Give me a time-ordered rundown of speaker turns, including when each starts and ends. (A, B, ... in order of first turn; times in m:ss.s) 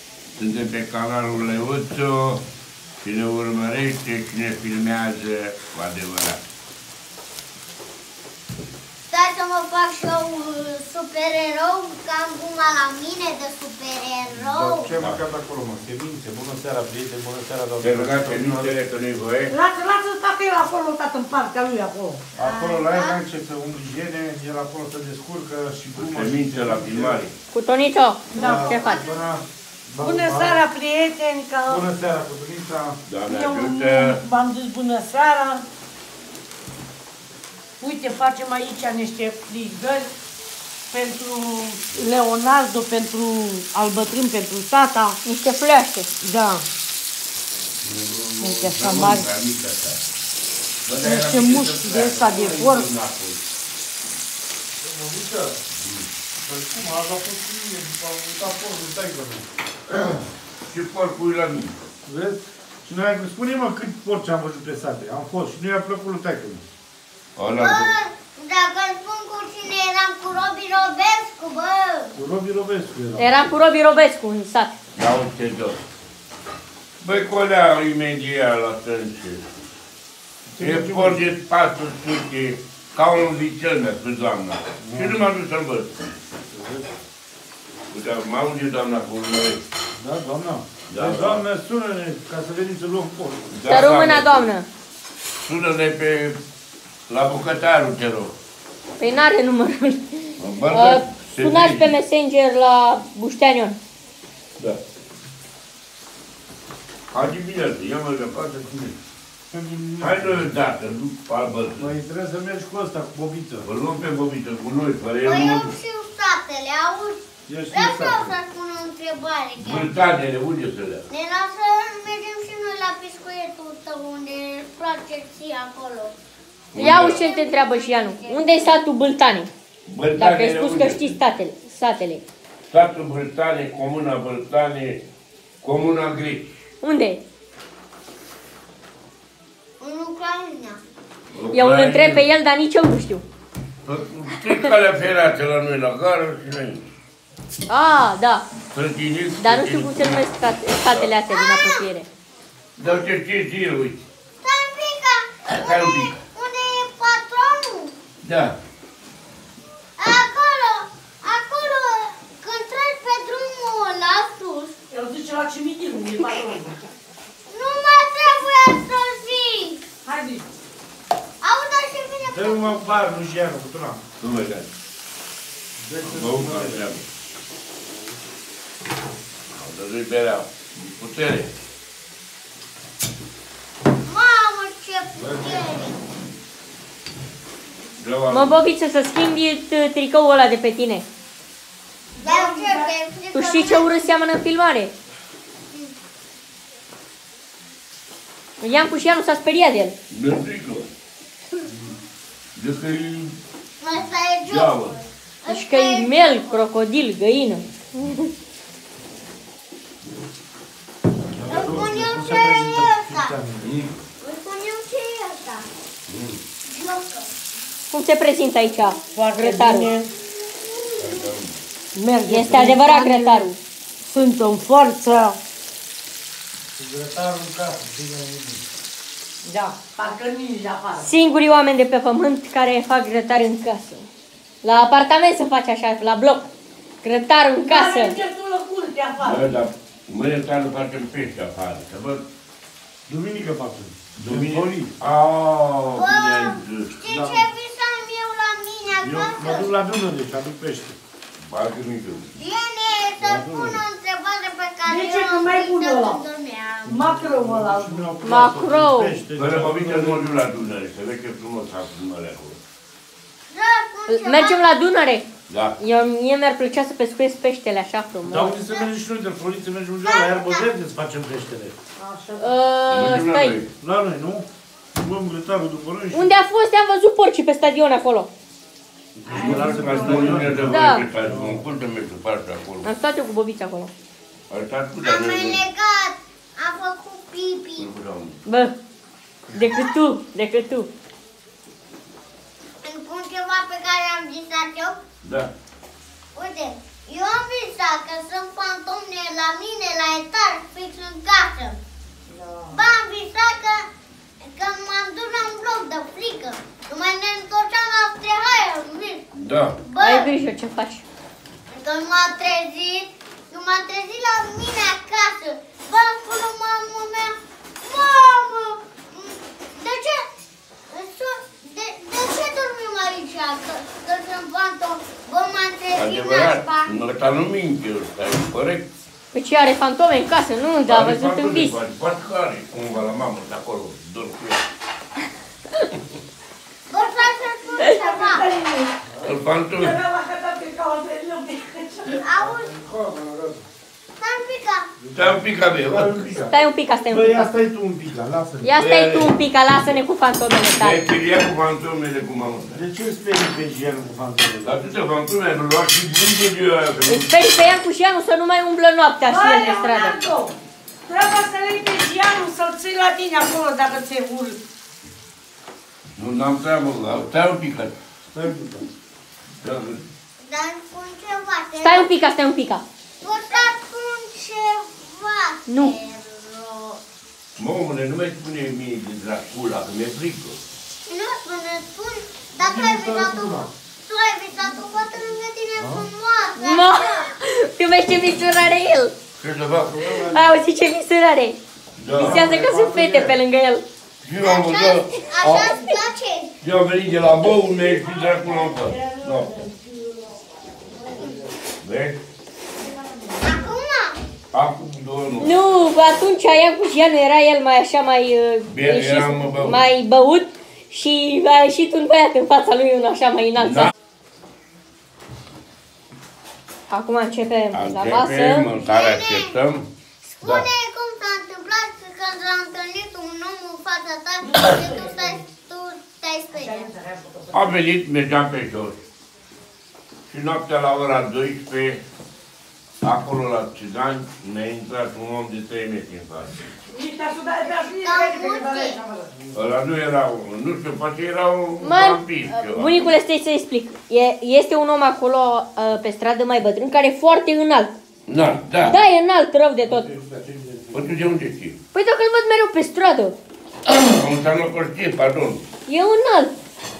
0:00.4-0:02.4 A
0:03.0-0:06.4 A
0:09.1-0:14.9 B
0:14.4-0:18.8 C
0:14.9-0:15.2 A
0:17.8-0:19.5 A
0:19.5-0:22.3 D
0:22.4-0:23.2 B
0:22.4-0:27.2 C
0:25.9-0:27.3 A
0:27.5-0:29.0 E
0:28.3-0:28.7 D
0:28.4-0:30.6 C
0:28.6-0:29.2 B
0:30.0-0:31.8 D
0:31.6-0:33.0 C
0:33.0-0:34.2 A
0:33.3-0:35.6 D
0:37.8-0:40.1 D
0:40.9-0:45.2 D
0:45.2-0:46.1 E
0:46.2-0:46.6 D
0:47.8-0:50.0 A
0:48.4-0:49.3 D
0:50.8-0:53.4 A
0:51.0-0:52.9 D
0:54.8-0:55.6 C
0:55.8-0:56.1 A
0:56.4-0:59.4 C
0:59.9-1:01.7 A
1:02.0-1:06.6 C
1:07.4-1:07.9 A
1:07.5-1:12.1 B
1:12.2-1:13.3 C
1:13.2-1:14.7 E
1:15.0-1:15.8 A
1:17.0-1:19.5 A
1:20.5-1:21.3 C
1:20.6-1:26.0 A
1:24.8-1:25.3 C
1:26.5-1:26.9 C
1:27.9-1:29.6 A
1:30.0-1:33.5 C
1:30.9-1:31.4 A
1:33.5-1:34.5 A
1:33.6-1:34.7 E
1:35.4-1:36.4 A
1:37.1-1:38.3 A
1:39.0-1:43.8 E
1:40.4-1:41.9 A
1:47.1-1:49.0 A
1:49.5-1:50.5 C
1:50.0-1:51.9 A
1:51.8-1:53.7 C
1:53.6-1:55.7 A
1:55.2-1:57.2 B
1:57.5-1:58.3 C
1:57.7-1:59.9 B
1:59.6-2:01.1 A
2:01.1-2:06.1 B
2:06.7-2:07.2 A
2:06.7-2:09.5 E
2:06.9-2:08.8 B
2:09.9-2:11.2 A
2:10.2-2:12.2 E
2:12.7-2:15.0 A
2:15.6-2:16.6 A
2:16.8-2:17.2 E
2:19.8-2:20.8 B
2:21.3-2:22.3 A
2:21.5-2:23.2 E
2:23.8-2:26.8 A
2:27.7-2:28.5 E
2:28.6-2:30.2 A
2:29.4-2:32.1 E
2:30.8-2:31.1 A
2:31.3-2:31.9 B
2:32.8-2:34.0 A
2:34.4-2:37.9 B
2:35.5-2:36.2 A
2:38.2-2:38.6 A
2:40.0-2:44.7 B
2:44.9-2:46.8 D
2:47.5-2:49.8 B
2:50.0-2:50.4 D
2:51.4-2:53.0 B
2:52.2-2:54.0 C
2:54.2-2:54.7 A
2:55.8-2:56.9 C
2:56.0-2:57.0 A
2:59.5-3:01.5 A
3:04.0-3:06.0 B
3:08.0-3:08.6 A
3:08.3-3:11.0 E
3:12.2-3:13.0 D
3:12.2-3:14.2 B
3:13.3-3:14.9 E
3:18.6-3:20.0 E
3:20.1-3:20.9 A
3:22.6-3:23.4 A
3:23.8-3:26.6 B
3:24.5-3:25.0 A
3:25.5-3:28.3 E
3:31.3-3:33.8 C
3:31.5-3:33.4 B
3:31.6-3:31.8 A
3:33.6-3:34.0 A
3:34.2-3:35.7 B
3:36.1-3:36.4 A
3:36.7-3:37.2 B
3:37.9-3:39.9 E
3:39.1-3:40.1 D
3:40.2-3:41.3 B
3:41.0-3:41.5 A
3:41.9-3:43.5 D
3:42.2-3:43.6 E
3:44.0-3:45.4 D
3:46.8-3:48.7 C
3:49.4-3:51.1 D
3:51.0-3:54.1 E
3:54.6-3:56.5 E
3:57.0-3:58.1 E
3:57.6-3:59.5 D
3:59.2-4:02.2 A
4:03.1-4:04.9 C
4:04.2-4:07.0 A
4:05.9-4:09.7 B
4:07.1-4:07.5 C
4:09.0-4:11.0 C
4:11.4-4:12.3 A
4:12.4-4:17.1 B
4:13.2-4:13.8 C
4:14.8-4:16.2 D
4:16.8-4:18.1 D
4:16.9-4:20.4 C
4:18.2-4:19.2 E
4:19.4-4:22.6 A
4:23.5-4:24.6 B
4:24.1-4:25.2 E
4:25.5-4:25.8 A
4:25.8-4:28.6 E
4:28.2-4:31.7 C
4:30.0-4:30.7 B
4:32.0-4:32.5 D
4:32.4-4:33.6 E
4:32.9-4:33.7 A
4:33.8-4:36.3 C
4:36.1-4:38.3 E
4:39.2-4:41.6 C
4:39.3-4:40.3 D
4:39.3-4:42.9 A
4:40.6-4:41.0 E
4:42.8-4:43.9 E
4:44.5-4:45.6 A
4:45.0-4:47.9 B
4:47.8-4:48.4 A
4:48.4-4:48.7 E
4:49.5-4:50.9 E
4:49.6-4:49.9 B
4:52.8-4:55.0 B
4:55.2-4:55.5 A
4:56.3-5:01.8 B
5:02.3-5:02.8 D
5:02.7-5:03.8 B
5:04.4-5:09.2 B
5:09.3-5:09.8 A
5:09.8-5:10.3 B
5:10.0-5:11.0 E
5:11.7-5:17.3 B
5:17.8-5:20.2 B
5:20.9-5:26.9 B
5:26.0-5:28.9 A
5:29.3-5:31.8 E
5:30.8-5:34.6 A
5:36.9-5:38.5 B
5:37.7-5:39.0 D
5:39.2-5:40.0 A
5:39.7-5:42.3 D
5:42.2-5:42.7 B
5:42.3-5:43.6 C
5:44.2-5:44.9 B
5:45.0-5:48.8 C
5:45.1-5:46.4 A
5:46.4-5:47.5 E
5:48.6-5:51.0 E
5:48.8-5:49.3 A
5:50.7-5:52.8 A
5:52.7-5:54.8 C
5:54.6-5:57.4 A
5:57.1-6:00.2 E
5:59.2-6:00.5 D
6:01.1-6:04.6 D
6:06.2-6:07.9 A
6:08.3-6:08.9 C
6:09.6-6:10.0 A
6:10.4-6:12.1 B
6:11.8-6:12.8 E
6:13.2-6:17.0 B
6:15.7-6:15.9 E
6:17.6-6:20.6 A
6:21.1-6:27.3 B
6:22.6-6:23.7 C
6:25.8-6:26.1 C
6:26.6-6:29.1 E
6:29.4-6:30.1 A
6:29.8-6:30.5 C
6:30.1-6:31.6 E
6:32.0-6:32.6 A
6:32.1-6:33.4 C
6:32.1-6:33.8 E
6:34.2-6:35.7 A
6:34.4-6:36.5 B
6:35.4-6:36.0 E
6:36.6-6:39.7 A
6:37.8-6:41.4 D
6:41.8-6:42.2 A
6:42.8-6:43.7 D
6:43.4-6:44.2 B
6:44.5-6:45.6 A
6:45.4-6:53.9 E
6:48.7-6:49.8 A
6:53.6-6:53.9 A
6:56.9-6:58.7 E
6:57.7-6:59.9 A
6:58.7-6:59.5 B
7:00.2-7:06.9 B
7:04.4-7:05.4 D
7:06.5-7:07.7 D
7:07.5-7:09.0 A
7:10.3-7:12.0 A
7:13.0-7:16.6 A
7:16.9-7:19.3 D
7:17.6-7:19.0 B
7:19.5-7:23.0 A
7:21.8-7:27.9 E
7:28.3-7:29.0 A
7:28.8-7:30.1 E
7:29.8-7:31.3 C
7:30.9-7:31.8 A
7:31.9-7:33.3 E
7:33.8-7:35.6 A
7:35.8-7:36.5 E